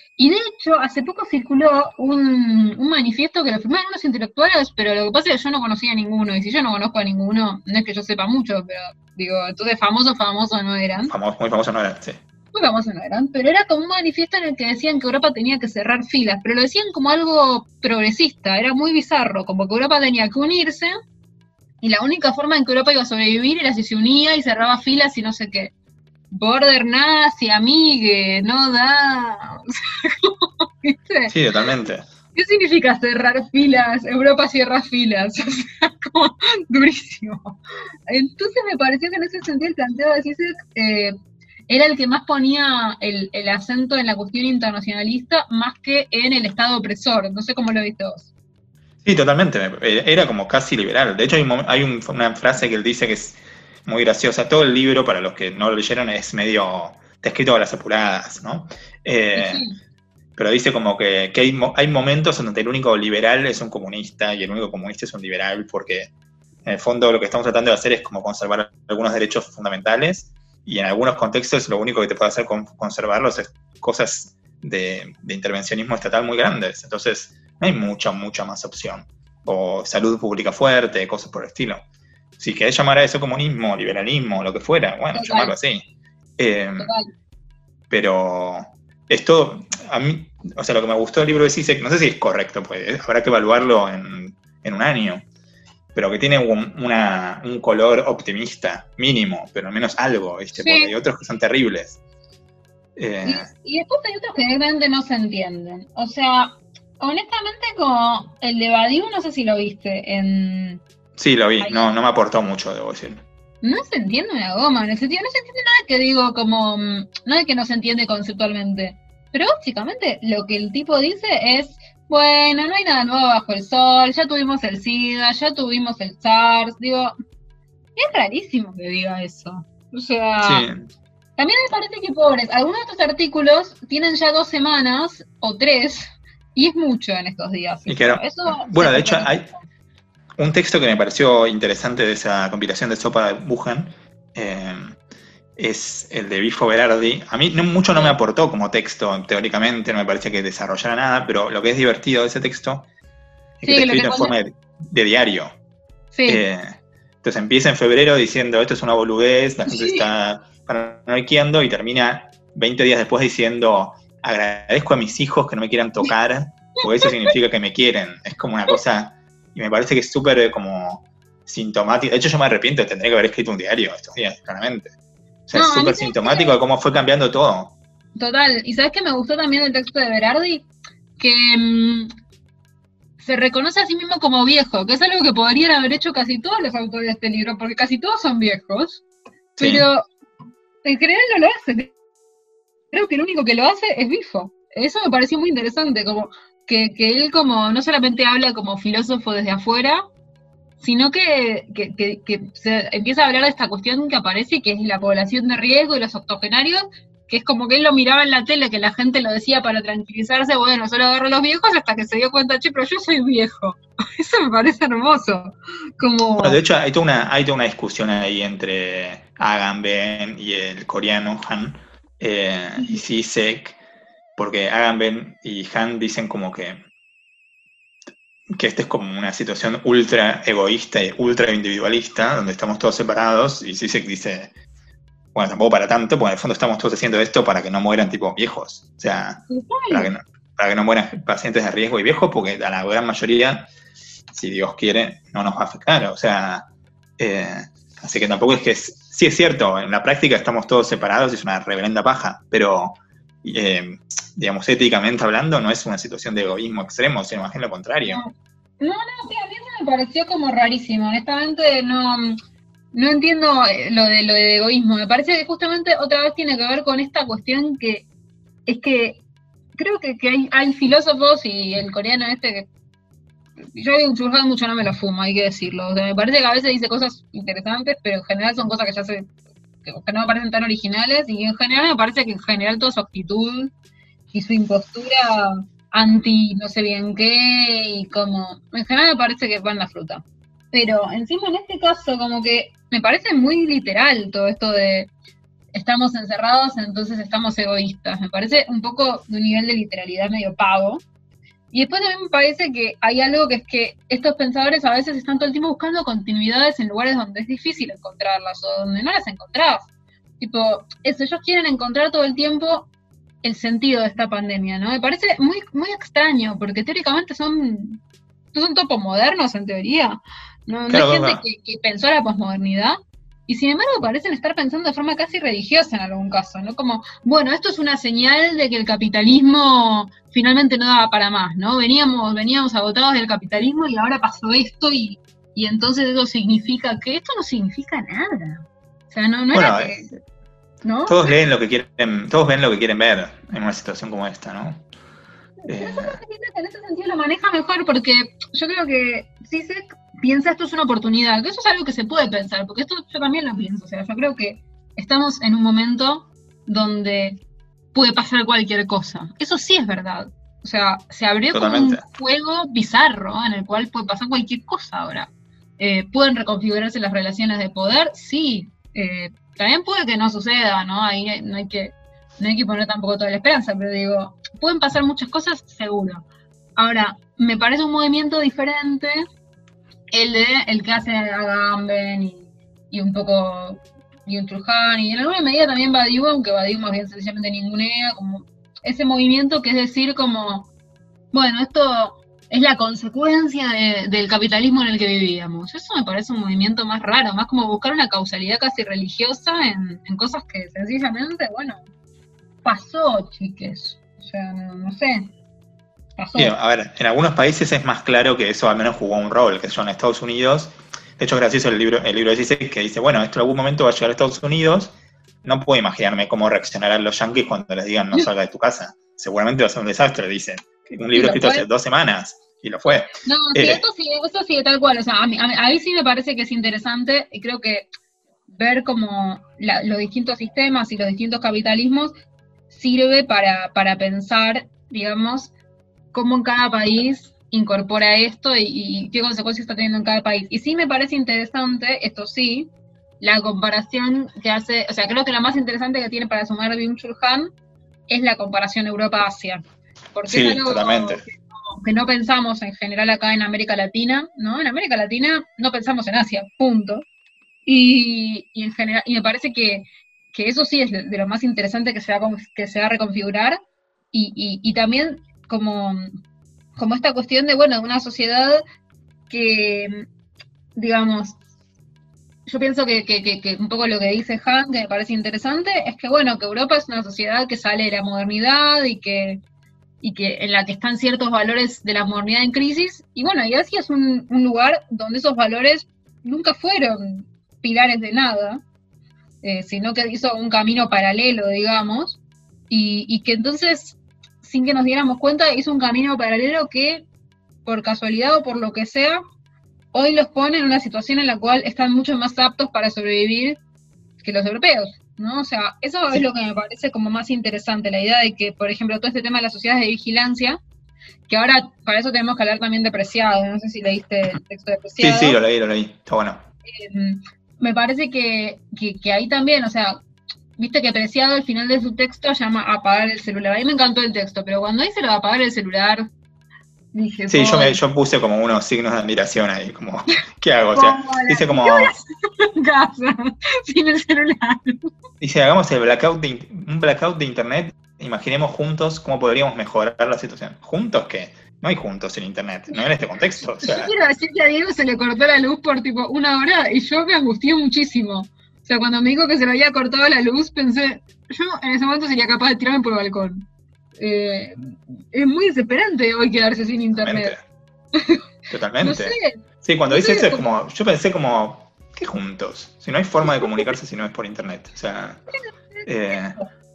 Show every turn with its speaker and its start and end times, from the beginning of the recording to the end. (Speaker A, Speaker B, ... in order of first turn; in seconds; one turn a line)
Speaker A: 0.2-11.1
Speaker B: 11.1-12.2
Speaker A: 12.5-20.9
Speaker A: 21.8-25.7
Speaker A: 26.3-31.4
Speaker B: 31.3-32.0
Speaker A: 32.3-41.1
Speaker A: 41.7-48.3
Speaker B: 49.0-59.6
Speaker A: 59.3-59.8
Speaker B: 60.4-66.1
Speaker B: 66.6-81.8
Speaker B: 82.4-85.8
Speaker A: 85.1-85.5
Speaker B: 86.4-86.9
Speaker A: 86.8-87.1
Speaker B: 87.9-95.2
Speaker B: 95.9-102.0
Speaker A: 100.6-100.9
Speaker B: 103.0-103.5
Speaker A: 103.2-110.8
Speaker B: 111.2-113.2
Speaker A: 111.6-111.8
Speaker A: 113.6-127.1
Speaker A: 128.0-130.7
Speaker B: 130.4-130.9
Speaker A: 131.4-139.6
Speaker B: 137.9-139.5
Speaker B: 140.4-145.0
Speaker B: 145.6-152.9
Speaker A: 147.9-148.2
Speaker B: 153.6-155.6
Speaker A: 153.6-154.3
Speaker A: 156.1-156.4
Speaker B: 156.3-174.9
Speaker A: 159.7-160.0
Speaker A: 167.0-167.3
Speaker B: 175.5-177.8
Speaker A: 175.5-176.6
Speaker A: 178.2-182.1
Speaker A: 183.2-189.0
Speaker B: 189.6-189.9
Speaker A: 189.6-190.1
Speaker A: 190.8-191.9
Speaker A: 192.9-200.0
Speaker A: 200.8-216.6
Speaker B: 216.4-223.8
Speaker B: 224.4-226.8
Speaker B: 228.5-234.5
Speaker B: 235.3-243.7
Speaker A: 239.5-240.1
Speaker B: 244.3-258.2
Speaker A: 258.0-262.4
Speaker A: 262.9-268.1
Speaker A: 268.6-269.2
Speaker A: 269.8-272.7
Speaker A: 273.7-279.3
Speaker A: 279.8-283.7
Speaker A: 284.3-295.1
Speaker A: 295.7-301.0
Speaker A: 301.7-309.9
Speaker A: 310.4-312.9
Speaker A: 313.4-318.0
Speaker A: 318.5-340.1
Speaker B: 320.9-321.4
Speaker B: 339.5-340.1
Speaker A: 340.8-341.3
Speaker B: 341.1-344.8
Speaker A: 345.6-357.4
Speaker B: 345.7-346.2
Speaker A: 357.9-376.2
Speaker B: 361.5-362.0
Speaker A: 376.8-379.2
Speaker A: 380.1-390.7
Speaker A: 391.3-401.8
Speaker A: 402.6-405.3
Speaker A: 406.2-406.5
Speaker B: 406.4-414.9
Speaker B: 415.4-423.8
Speaker A: 421.1-421.7
Speaker A: 423.2-427.9
Speaker A: 428.5-432.1
Speaker A: 432.7-435.5
Speaker A: 436.1-442.7
Speaker A: 443.2-447.5
Speaker A: 448.1-457.1
Speaker B: 450.3-451.2
Speaker A: 457.6-463.6
Speaker A: 464.1-466.1
Speaker A: 466.8-468.6
Speaker A: 469.3-470.1
Speaker A: 470.8-471.4
Speaker A: 472.5-479.4
Speaker A: 480.0-488.6
Speaker A: 489.4-497.1
Speaker A: 497.6-499.2
Speaker A: 499.9-503.6
Speaker A: 504.2-510.6
Speaker A: 511.3-515.4
Speaker B: 515.0-516.5
Speaker A: 516.6-520.0
Speaker A: 520.6-526.1
Speaker A: 526.9-527.8
Speaker B: 527.3-531.9
Speaker A: 530.7-534.9
Speaker B: 535.2-543.9
Speaker A: 543.6-553.5
Speaker A: 554.0-557.4
Speaker B: 557.0-557.4
Speaker A: 557.9-558.2
Speaker B: 558.5-565.2
Speaker A: 558.8-560.4
Speaker A: 563.2-563.7
Speaker A: 565.3-566.5
Speaker B: 565.9-566.4